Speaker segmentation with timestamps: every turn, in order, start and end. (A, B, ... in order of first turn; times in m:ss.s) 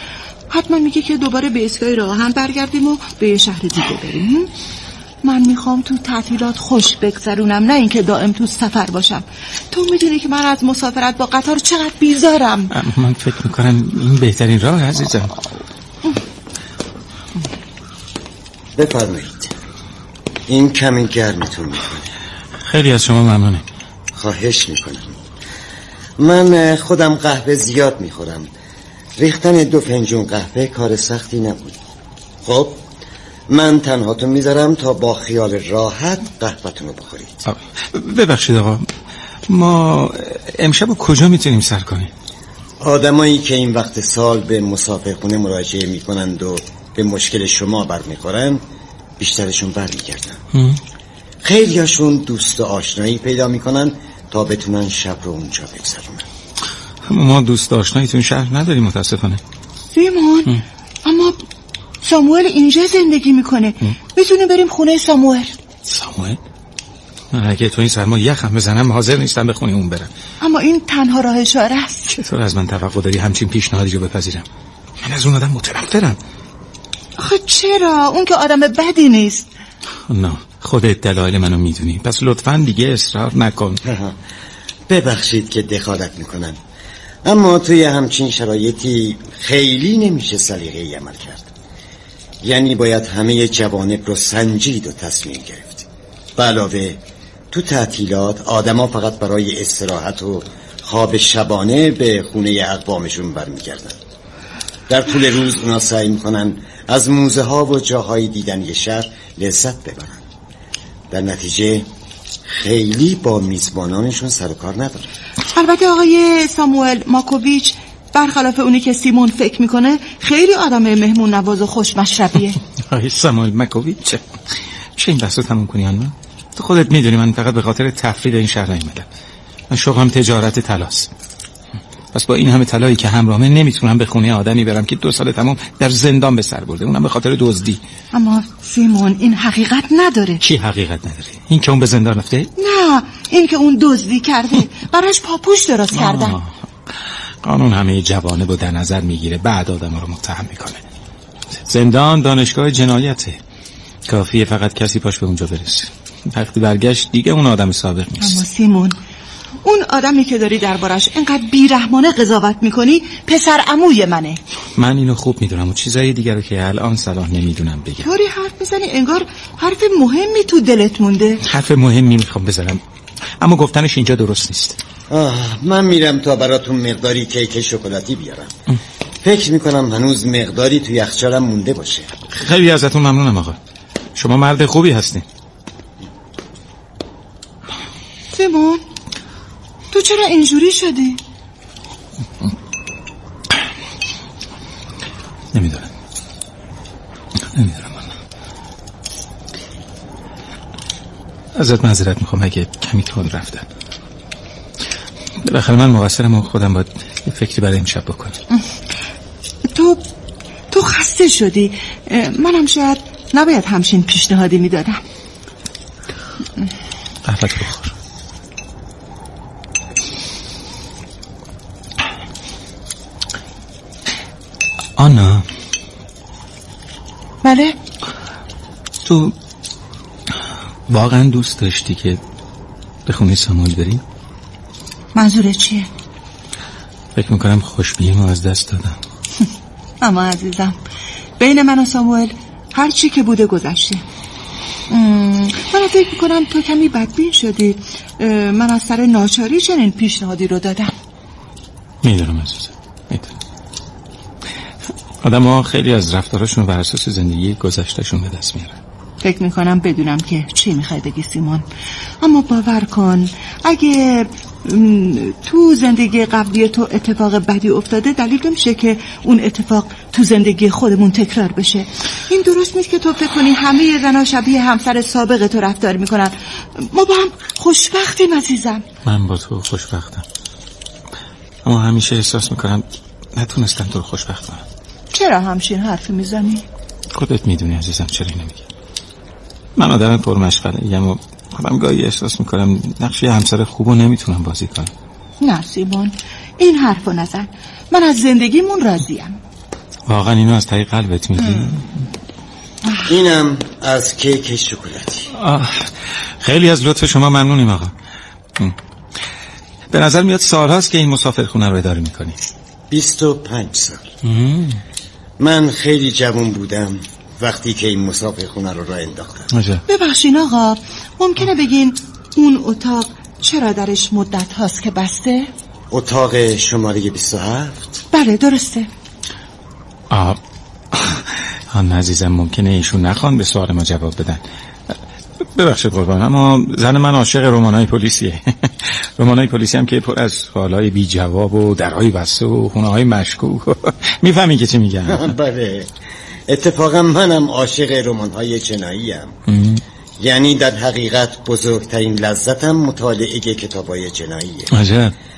0:00.5-0:04.5 A
0:05.2-0:12.7 A
0:12.7-0:15.4 B
0:18.8-0:19.5 C
0:20.5-0:22.1 C
0:22.7-0:23.6 B
0:24.1-0:25.2 C
0:26.2-0:28.5 C
0:29.2-0:31.8 C
0:32.4-0:32.8 C
0:33.5-0:37.4 C
0:37.4-0:38.8 B
0:39.5-0:42.1 B
0:42.8-0:48.6 C
0:49.2-0:50.4 C
0:50.5-0:50.8 B
0:51.4-0:56.2 C
0:57.0-0:59.4 B
0:59.9-1:01.4 A
1:02.0-1:05.6 A
1:05.8-1:06.4 B
1:07.3-1:10.1 B
1:10.4-1:12.1 A
1:12.1-1:14.4 B
1:15.0-1:16.2 B
1:17.2-1:19.5 A
1:20.1-1:23.8 B
1:23.8-1:24.2 C
1:24.9-1:26.6 C
1:27.2-1:31.5 C
1:32.4-1:44.0 C
1:44.9-1:50.2 C
1:51.1-1:51.9 C
1:52.5-1:55.1 C
1:55.5-2:02.6 A
2:02.8-2:09.0 B
2:09.7-2:11.1 B
2:12.1-2:17.8 B
2:18.1-2:20.4 A
2:20.4-2:22.5 B
2:22.6-2:26.4 A
2:25.9-2:26.5 B
2:27.4-2:30.8 B
2:31.6-2:33.4 B
2:34.0-2:38.4 B
2:38.2-2:39.0 A
2:39.6-2:44.4 A
2:44.8-2:48.1 B
2:48.0-2:51.4 A
2:51.4-2:52.8 B
2:53.4-2:54.8 B
2:55.1-2:58.5 C
2:59.2-3:02.1 C
3:02.3-3:03.6 B
3:04.2-3:05.2 B
3:08.3-3:08.8 A
3:09.9-3:11.2 A
3:15.5-3:15.9 B
3:17.4-3:18.1 B
3:21.5-3:23.6 B
3:25.4-3:28.4 B
3:29.6-3:30.0 A
3:30.7-3:35.0 A
3:37.2-3:37.9 B
3:45.0-3:45.4 B
3:47.4-3:47.8 A
3:49.0-3:49.3 B
3:50.9-3:52.2 B
3:53.0-3:54.0 B
3:55.1-3:55.9 A
3:57.2-3:59.0 B
4:00.0-4:00.8 A
4:01.4-4:04.0 A
4:04.9-4:10.9 A
4:12.0-4:13.3 B
4:15.2-4:18.8 B
4:19.2-4:21.6 A
4:22.2-4:38.8 A
4:39.0-4:40.2 B
4:41.6-4:44.6 B
4:45.1-4:46.6 A
4:47.1-4:48.6 B
4:49.8-4:54.9 B
4:55.4-4:59.4 A
5:00.1-5:01.9 B
5:03.0-5:05.3 C
5:05.3-5:07.9 B
5:09.9-5:12.4 B
5:12.9-5:14.1 C
5:14.2-5:14.8 B
5:15.4-5:19.5 C
5:19.5-5:19.8 B
5:19.9-5:25.5 A
5:25.9-5:28.0 C
5:28.1-5:28.9 A
5:30.1-5:30.4 B
5:30.9-5:34.4 B
5:35.4-5:45.3 B
5:45.0-5:45.9 C
5:46.5-5:49.4 C
5:49.5-5:49.8 B
5:50.2-5:54.7 C
5:54.7-5:55.1 B